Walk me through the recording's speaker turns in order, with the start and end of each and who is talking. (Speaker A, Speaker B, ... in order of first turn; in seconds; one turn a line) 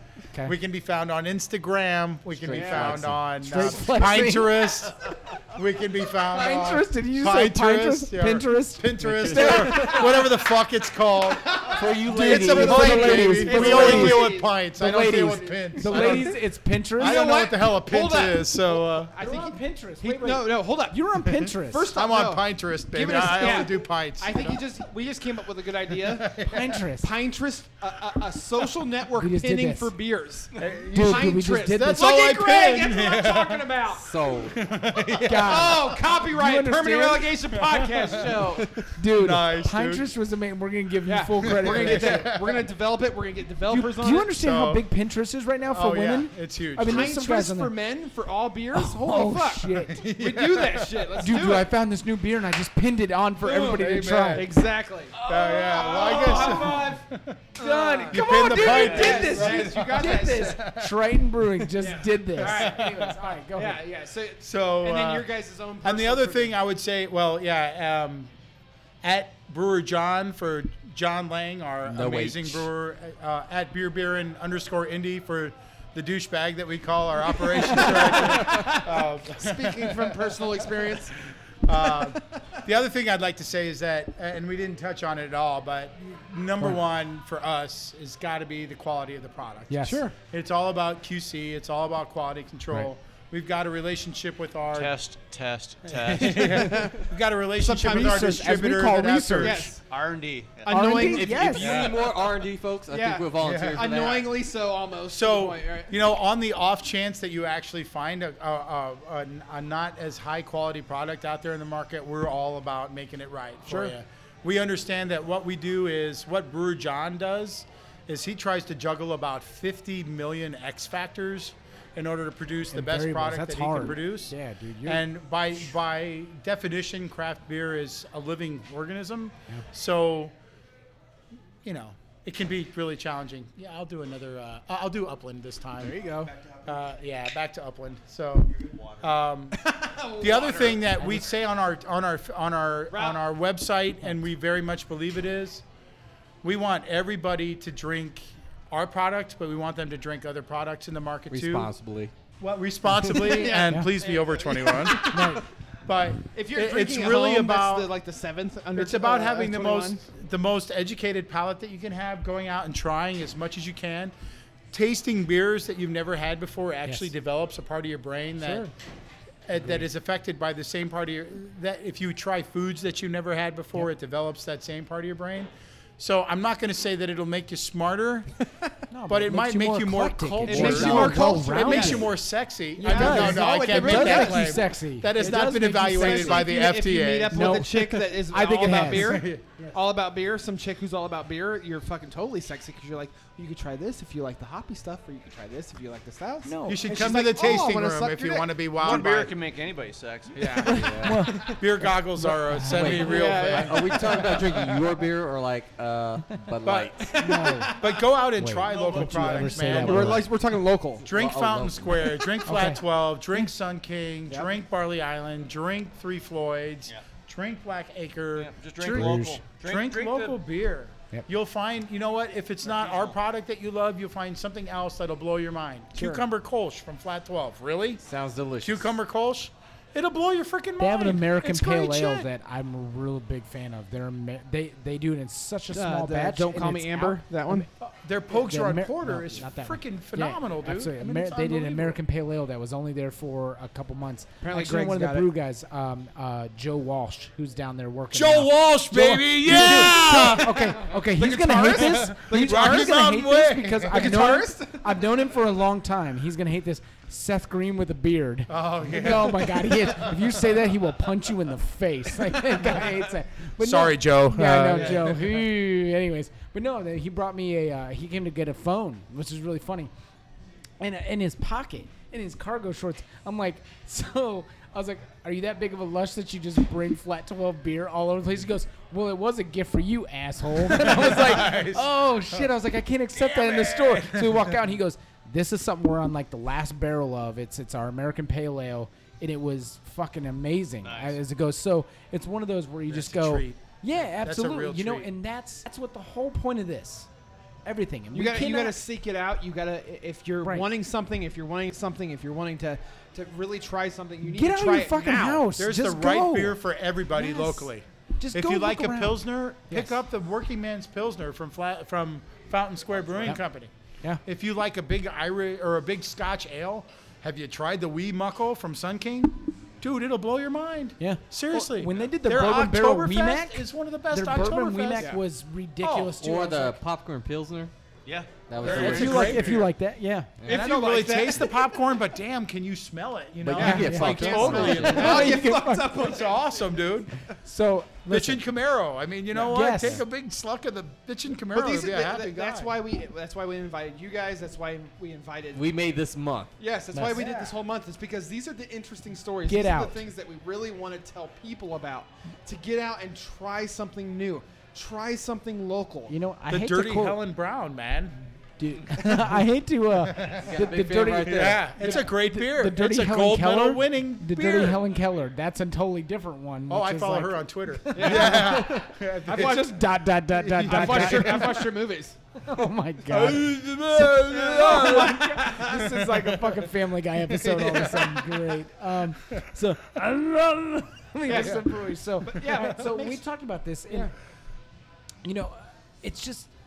Speaker A: 0.4-16.4
Speaker B: 2.4-3.7
Speaker C: 2.5-4.8
Speaker D: 2.6-2.9
Speaker C: 6.2-10.2
Speaker B: 9.4-9.9
Speaker D: 11.4-16.3
Speaker B: 11.8-14.1
Speaker C: 11.8-17.2
Speaker A: 17.0-19.1
Speaker D: 17.0-21.0
Speaker C: 19.2-21.9
Speaker D: 21.6-26.3
Speaker A: 21.9-24.6
Speaker A: 25.9-26.8
Speaker C: 26.4-27.1
Speaker D: 27.0-34.2
Speaker C: 29.2-29.9
Speaker A: 30.6-33.8
Speaker C: 30.9-32.0
Speaker B: 34.0-34.6
Speaker A: 34.5-36.0
Speaker C: 35.2-42.3
Speaker D: 35.4-38.7
Speaker A: 37.7-40.1
Speaker D: 41.0-44.3
Speaker A: 41.5-42.7
Speaker C: 43.7-47.7
Speaker A: 44.3-44.8
Speaker A: 45.7-47.1
Speaker D: 46.8-51.7
Speaker C: 48.7-50.0
Speaker A: 50.0-51.3
Speaker C: 51.2-54.5
Speaker D: 53.4-57.0
Speaker A: 53.6-54.6
Speaker A: 55.1-57.5
Speaker C: 55.9-56.9
Speaker D: 57.6-60.6
Speaker C: 57.6-63.8
Speaker A: 58.1-61.5
Speaker D: 61.8-66.5
Speaker A: 62.4-63.2
Speaker A: 64.4-65.3
Speaker A: 65.8-68.3
Speaker A: 69.0-81.1
Speaker B: 71.8-72.7
Speaker D: 77.6-82.2
Speaker A: 81.6-94.9
Speaker C: 89.7-90.1
Speaker D: 89.8-90.1
Speaker E: 94.7-96.8
Speaker A: 95.8-99.7
Speaker C: 97.6-99.7
Speaker D: 99.4-99.8
Speaker E: 99.9-101.0
Speaker D: 100.6-102.3
Speaker C: 100.7-101.7
Speaker B: 101.0-104.3
Speaker A: 101.6-102.0
Speaker D: 102.9-106.0
Speaker A: 103.4-104.0
Speaker A: 105.1-130.3
Speaker D: 113.7-114.0
Speaker C: 122.7-125.0
Speaker A: 131.6-136.0
Speaker C: 135.8-136.3
Speaker A: 136.6-139.6
Speaker D: 139.6-141.3
Speaker A: 140.2-145.6
Speaker D: 142.9-143.2
Speaker A: 146.4-151.7
Speaker B: 151.3-152.1
Speaker A: 152.4-157.9
Speaker D: 153.2-155.2
Speaker C: 153.6-153.9
Speaker C: 155.0-155.4
Speaker D: 156.3-160.0
Speaker A: 158.7-164.1
Speaker A: 164.7-168.7
Speaker C: 168.4-168.7
Speaker A: 169.4-178.3
Speaker C: 178.9-182.1
Speaker A: 179.1-188.0
Speaker D: 180.4-182.2
Speaker B: 180.5-181.1
Speaker C: 182.8-186.6
Speaker D: 182.8-198.7
Speaker C: 187.3-189.7
Speaker A: 188.6-189.4
Speaker C: 196.4-196.9
Speaker A: 196.7-199.3
Speaker E: 198.8-200.8
Speaker A: 200.3-204.8
Speaker C: 200.6-203.1
Speaker B: 200.7-201.3
Speaker B: 202.7-207.1
Speaker D: 202.8-204.7
Speaker A: 206.6-207.1
Speaker D: 207.1-208.0
Speaker C: 207.2-207.7
Speaker A: 207.7-210.3
Speaker C: 208.4-210.2
Speaker E: 208.7-209.3
Speaker D: 209.4-211.1
Speaker A: 211.0-228.0
Speaker B: 211.1-212.3
Speaker C: 212.4-212.8
Speaker D: 214.3-214.5
Speaker E: 218.4-220.4
Speaker C: 218.8-219.4
Speaker E: 222.6-223.1
Speaker D: 225.9-226.2
Speaker B: 228.0-228.9
Speaker A: 228.6-231.3
Speaker C: 230.8-237.7
Speaker D: 231.3-232.3
Speaker D: 235.7-237.7
Speaker A: 237.8-242.0
Speaker C: 238.3-269.9
Speaker D: 244.4-245.3
Speaker A: 248.1-250.7
Speaker D: 249.4-253.0
Speaker A: 251.4-254.4
Speaker D: 253.9-255.0
Speaker A: 258.5-260.6
Speaker D: 262.4-263.1
Speaker A: 263.6-265.4
Speaker D: 264.7-265.3
Speaker C: 270.8-297.1
Speaker A: 280.6-282.5
Speaker E: 283.2-283.8
Speaker A: 283.9-284.5
Speaker E: 290.8-291.2
Speaker A: 292.9-295.1
Speaker C: 297.6-298.8
Speaker D: 298.1-305.5
Speaker C: 304.2-306.6
Speaker A: 305.6-313.7
Speaker C: 307.1-310.0
Speaker A: 314.2-325.2
Speaker C: 321.0-326.8
Speaker A: 325.8-326.1
Speaker B: 326.2-327.7
Speaker E: 328.1-329.6
Speaker B: 328.5-329.6
Speaker A: 328.6-329.7
Speaker C: 328.7-330.3
Speaker A: 330.4-337.1
Speaker D: 330.4-331.6
Speaker B: 333.4-335.3
Speaker C: 333.6-335.9
Speaker D: 333.6-336.4
Speaker C: 337.4-338.4
Speaker A: 338.1-342.8
Speaker C: 339.4-340.0
Speaker D: 341.5-345.8
Speaker B: 345.5-346.5
Speaker D: 346.6-356.1
Speaker C: 346.9-347.4
Speaker A: 347.0-347.5
Speaker C: 349.5-349.9
Speaker C: 356.1-357.2
Speaker A: 356.5-358.1
Speaker C: 358.6-371.6
Speaker A: 358.8-359.3
Speaker A: 360.0-360.5
Speaker B: 360.2-361.9
Speaker A: 361.2-364.8
Speaker A: 366.7-371.7
Speaker D: 367.9-369.8
Speaker D: 370.6-372.1
Speaker C: 372.4-384.1
Speaker A: 373.1-376.2
Speaker D: 374.2-376.7
Speaker D: 377.4-378.3
Speaker A: 377.5-377.9
Speaker D: 381.2-383.2
Speaker C: 385.2-386.5